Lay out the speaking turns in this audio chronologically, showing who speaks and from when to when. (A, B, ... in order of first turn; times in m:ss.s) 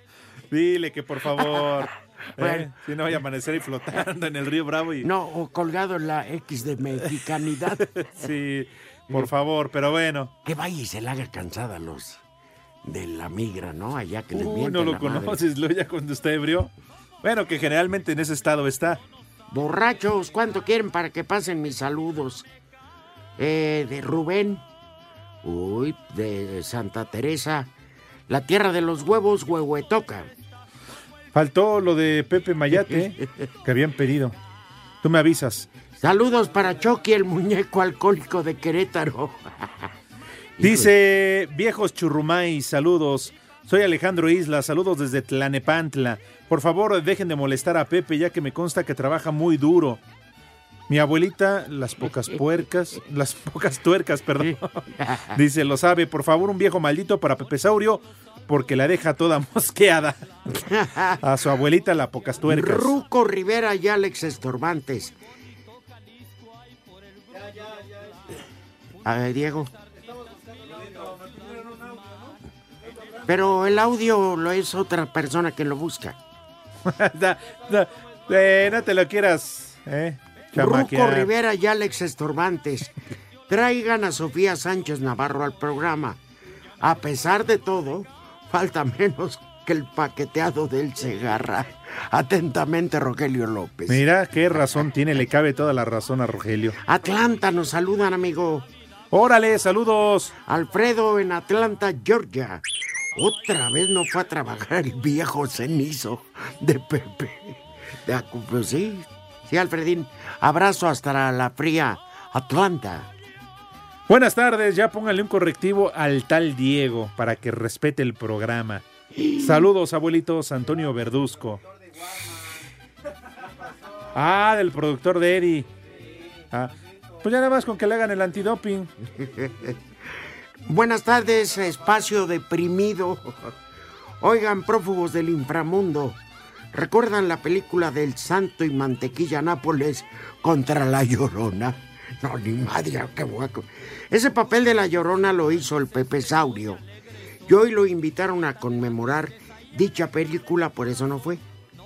0:00.5-0:05.1 A
0:01.4-0:01.8 B
0:02.4-0:02.7 B
0:05.0-0:07.9 B
0:08.0-0:10.3 A
0:10.4-0:12.2 B
0:12.8-0:15.4 B
0:14.3-0:19.0 A
0:19.5-0:22.4 B
0:23.4-0:24.6 B
0:25.4-0:27.7 B
0:28.3-0:30.3 B
0:31.3-0:34.3 A
0:32.7-0:33.2 B
0:35.0-0:35.7 A
0:36.0-0:39.9 B
0:40.6-0:40.9 B
0:40.6-0:50.0 A
0:50.9-0:54.8 A
0:54.4-0:55.4 B
0:55.3-1:00.2 A
1:00.5-1:01.2 B
1:01.2-1:02.9 A
1:02.4-1:05.1 B
1:09.0-1:09.7 B
1:13.2-1:16.2 B
1:16.9-1:21.3 A
1:20.5-1:22.9 B
1:23.5-1:26.2 B
1:26.8-1:34.8 B
1:33.9-1:36.8 A
1:36.8-1:38.7 B
1:39.1-1:40.3 A
1:40.4-1:42.6 B
1:43.1-1:53.1 B
1:54.1-1:58.8 A
1:59.2-1:59.7 B
1:59.4-2:01.6 A
2:04.1-2:05.7 A
2:07.2-2:08.9 A
2:09.1-2:09.8 B
2:10.6-2:13.5 B
2:14.2-2:16.2 B
2:16.7-2:26.8 B
2:27.5-2:31.4 B